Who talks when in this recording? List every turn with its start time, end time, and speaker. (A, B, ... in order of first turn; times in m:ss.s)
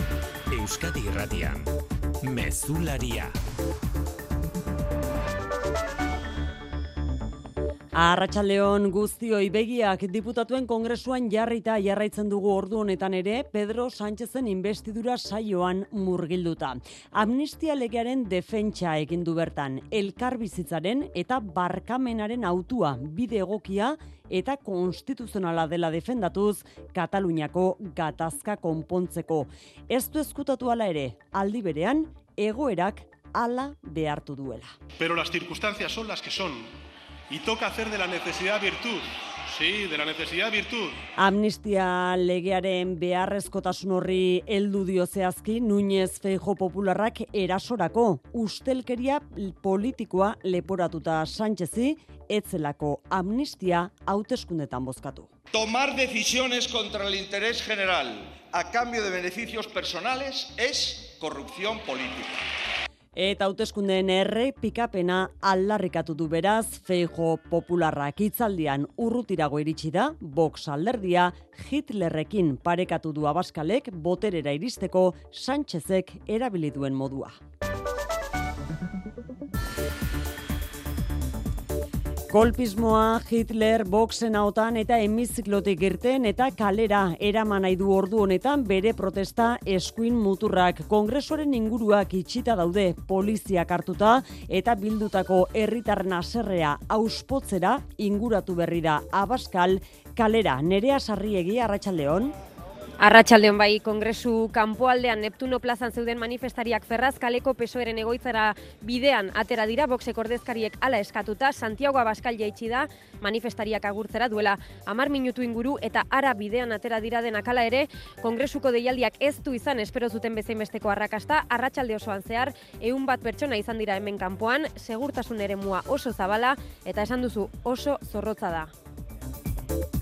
0:00.5-0:01.7 A
0:02.2-0:03.3 A
0:07.9-0:34.7 B
0:35.0-0:36.8 C
0:37.3-0:41.0 C
0:41.2-0:55.3 B
0:55.5-1:02.4 D
1:03.2-1:17.4 B
1:22.3-1:42.3 B
1:43.0-2:08.7 E